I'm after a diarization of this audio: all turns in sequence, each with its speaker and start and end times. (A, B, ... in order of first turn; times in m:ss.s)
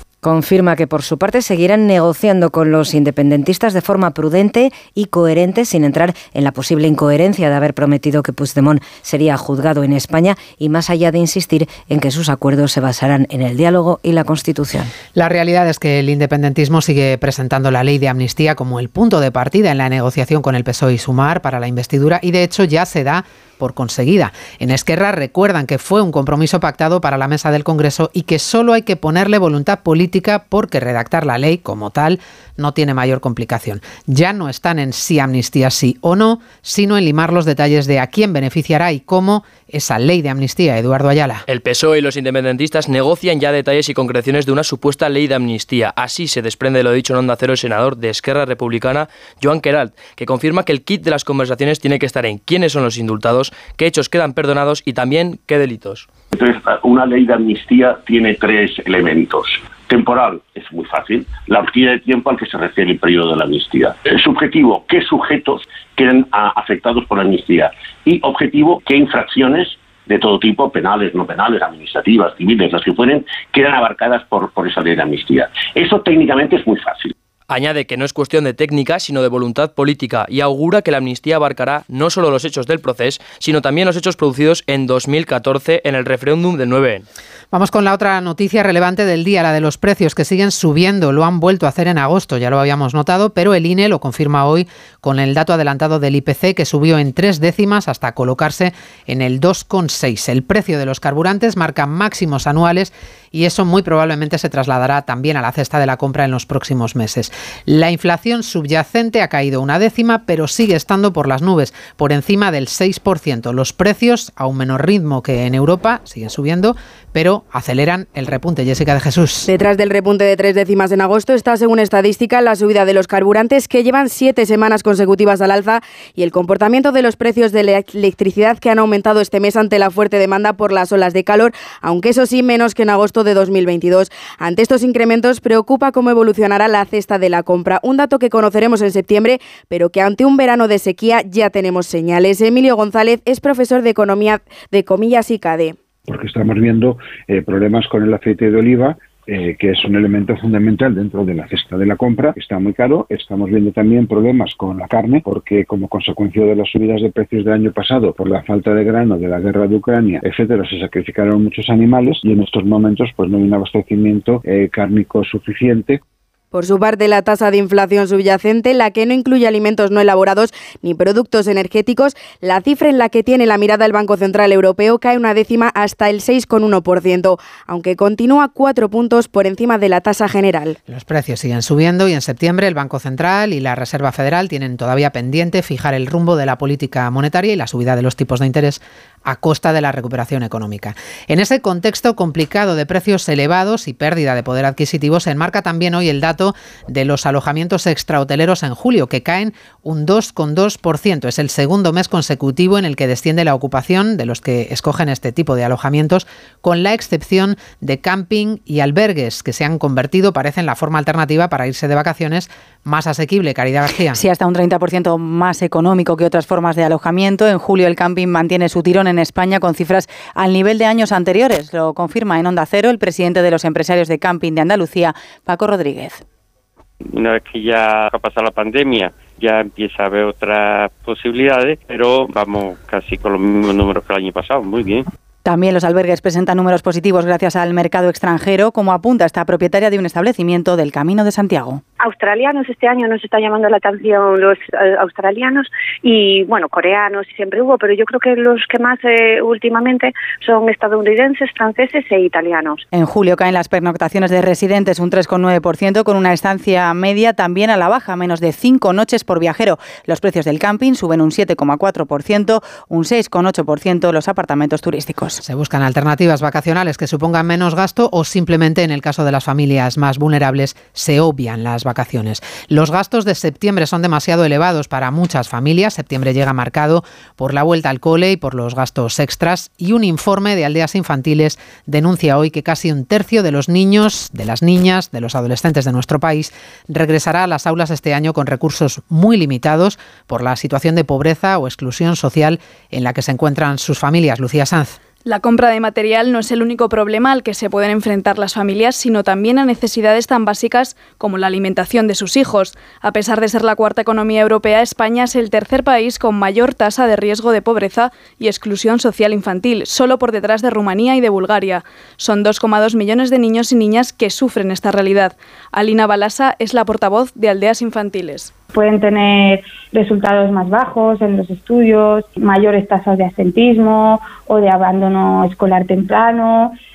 0:00.2-0:14.9 A
0:15.1-0:41.4 B
0:41.5-0:56.1 C
0:56.3-1:17.1 D
1:17.5-1:27.0 C
1:27.5-1:59.4 B
1:59.4-2:25.8 E
2:26.1-2:46.0 F
2:46.5-3:00.8 E
3:00.9-3:34.2 B
3:34.1-3:46.2 G
3:47.1-3:55.0 H
3:55.4-4:01.8 G
4:02.0-4:12.8 I
4:12.9-4:25.4 G
4:25.4-4:55.0 B
4:55.2-5:18.5 J
5:18.7-5:26.7 K